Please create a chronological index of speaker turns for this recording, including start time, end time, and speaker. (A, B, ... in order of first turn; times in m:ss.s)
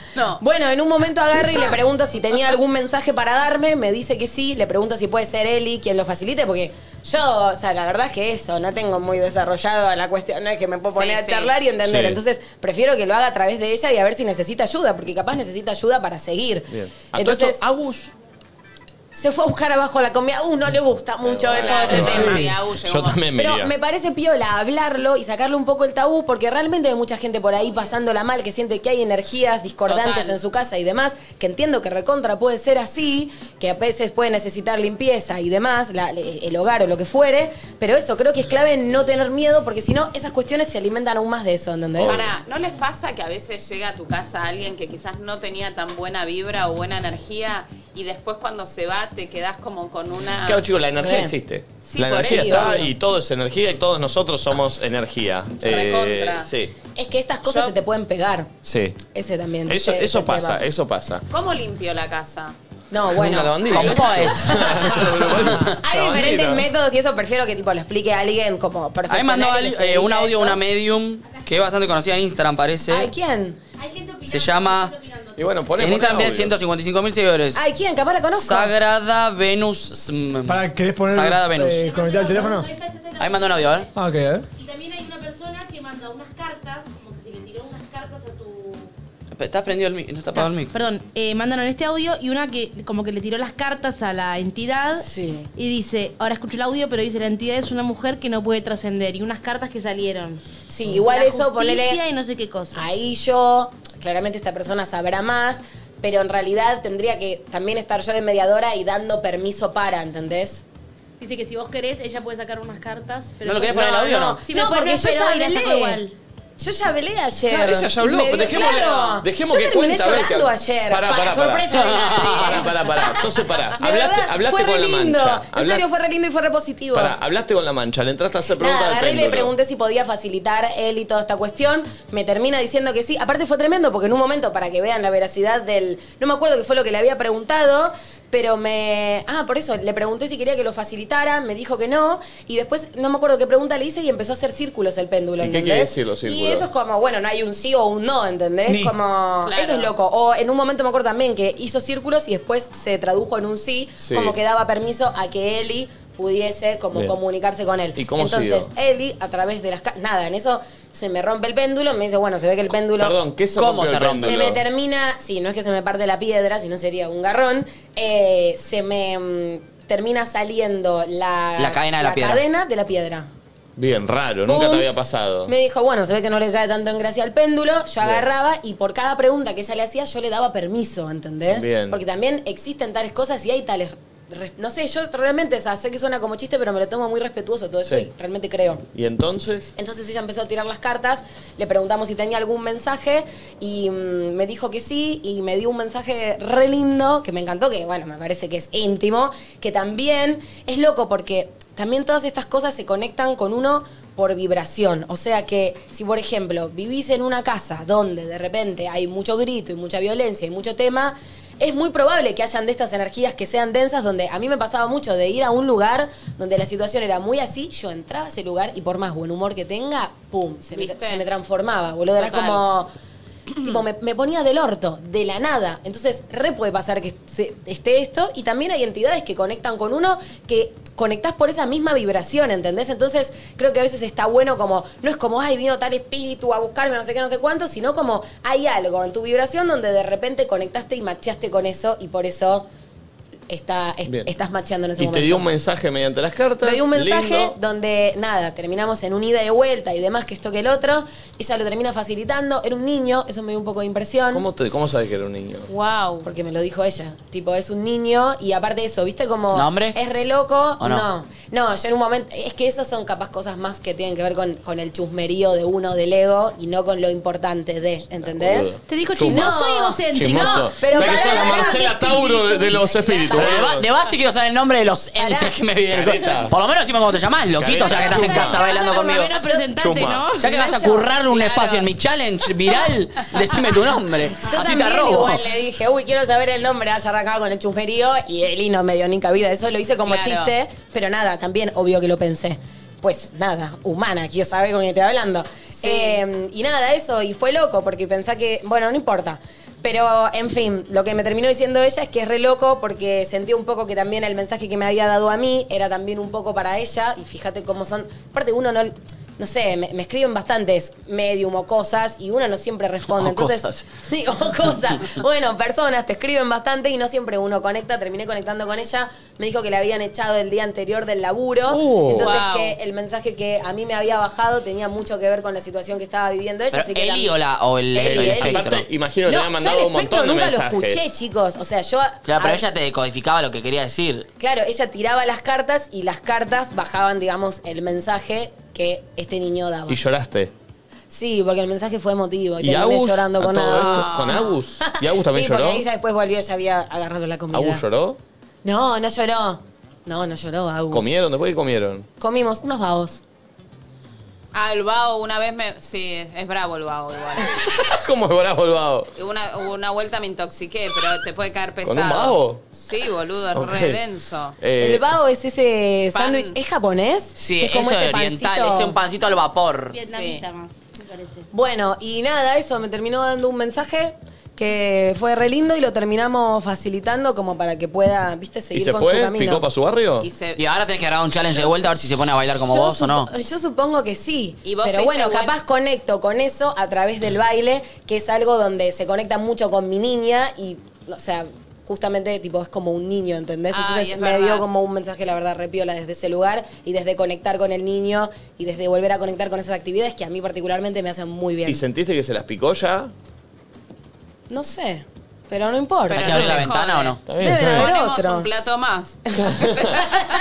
0:00.4-0:17.6 A
0:10.9-0:11.5 B
0:11.8-0:12.2 C
0:16.7-0:18.1 C
0:19.1-0:22.5 A
0:21.2-0:23.7 C
0:21.6-0:23.2 B
0:23.4-0:42.3 A
0:29.9-0:30.4 B
0:42.0-0:42.3 C
0:42.1-0:50.6 B
0:50.4-0:56.7 C
0:51.0-0:51.3 A
0:51.9-0:52.9 B
0:52.1-0:52.9 A
0:55.6-0:56.5 B
0:57.0-0:58.5 A
0:57.5-0:57.7 B
0:58.6-0:59.0 C
0:59.1-1:00.6 A
0:59.7-1:01.2 C
1:01.3-1:02.6 B
1:02.9-1:10.6 A
1:03.1-1:06.7 C
1:03.7-1:05.7 D
1:09.1-1:13.1 D
1:11.3-1:11.5 E
1:12.9-1:13.6 A
1:13.8-1:15.5 E
1:14.3-1:14.9 D
1:15.4-1:16.6 C
1:15.8-1:17.6 D
1:17.6-1:18.7 A
1:18.4-1:21.8 D
1:20.5-1:22.7 F
1:21.8-1:23.9 E
1:23.2-1:23.9 D
1:24.0-1:24.5 F
1:24.6-1:28.9 E
1:29.4-1:30.7 D
1:30.3-1:42.8 E
1:34.9-1:35.5 A
1:40.7-1:42.0 A
1:42.7-1:50.6 A
1:51.2-1:56.2 E
1:53.4-1:54.4 D
1:53.7-1:56.0 A
1:56.6-2:02.7 A
1:57.5-2:05.8 C
1:58.5-1:59.2 B
2:01.9-2:02.4 D
2:03.8-2:07.2 A
2:06.9-2:09.5 C
2:08.6-2:43.2 A
2:25.4-2:26.7 C
2:28.7-2:29.0 F
2:29.4-2:29.9 B
2:34.0-2:34.4 C
2:38.0-2:38.7 C
2:43.0-2:44.6 C
2:43.6-2:44.4 D
2:44.2-2:53.3 A
2:51.6-2:52.4 D
2:53.8-2:55.5 C
2:54.5-2:54.9 A
2:55.5-3:08.8 A
2:58.0-2:58.3 C
3:01.5-3:02.0 C
3:08.9-3:09.7 C
3:09.8-3:42.9 A
3:40.8-3:41.2 B
3:42.2-3:42.6 B
3:43.6-4:02.7 A
4:03.5-4:05.5 A
4:05.0-4:07.6 C
4:06.6-4:14.4 A
4:14.3-4:15.7 C
4:15.7-4:16.3 B
4:16.2-4:33.7 A
4:19.5-4:20.0 D
4:20.8-4:21.1 D
4:28.2-4:29.6 C
4:28.9-4:32.8 E
4:30.1-4:33.9 C
4:33.4-4:39.5 D
4:35.2-4:35.5 A
4:35.9-4:36.6 C
4:37.6-4:38.7 C
4:37.8-4:40.9 E
4:39.7-4:40.3 C
4:40.4-4:45.4 D
4:41.3-4:41.9 B
4:44.4-5:27.4 A
4:50.0-4:50.5 B
4:55.8-4:56.2 B
5:13.1-5:13.9 D
5:21.7-5:22.3 C
5:22.1-5:22.8 B
5:26.7-5:28.9 D
5:27.9-5:28.7 A
5:28.0-5:31.1 C
5:29.3-5:32.6 A
5:32.2-5:34.3 D
5:34.4-5:40.0 A
5:39.9-5:40.5 C
5:41.1-5:47.8 A
5:42.6-5:45.8 C
5:43.8-5:44.6 B
5:47.5-5:48.2 C
5:48.6-5:51.2 A
5:50.9-5:52.1 C
5:52.2-5:53.2 A
5:54.5-5:57.7 B
5:57.8-5:59.1 C
5:59.2-6:04.6 B
6:01.8-6:02.6 C
6:03.5-6:04.0 C
6:04.6-6:05.0 C
6:04.8-6:09.0 A
6:06.1-6:06.6 B
6:07.4-6:10.0 D
6:09.9-6:11.5 E
6:10.1-6:10.4 B
6:11.5-6:19.6 A
6:18.7-6:20.3 C
6:20.2-6:20.6 B
6:20.6-6:23.3 D
6:22.7-6:41.8 A
6:24.6-6:25.5 B
6:33.7-6:34.6 B
6:41.7-6:43.1 C
6:44.5-6:46.7 A
6:46.1-6:49.2 B
6:46.2-6:47.2 D
6:47.3-6:47.9 C
6:47.4-6:48.6 A
6:49.4-6:50.0 C
6:49.4-6:50.3 A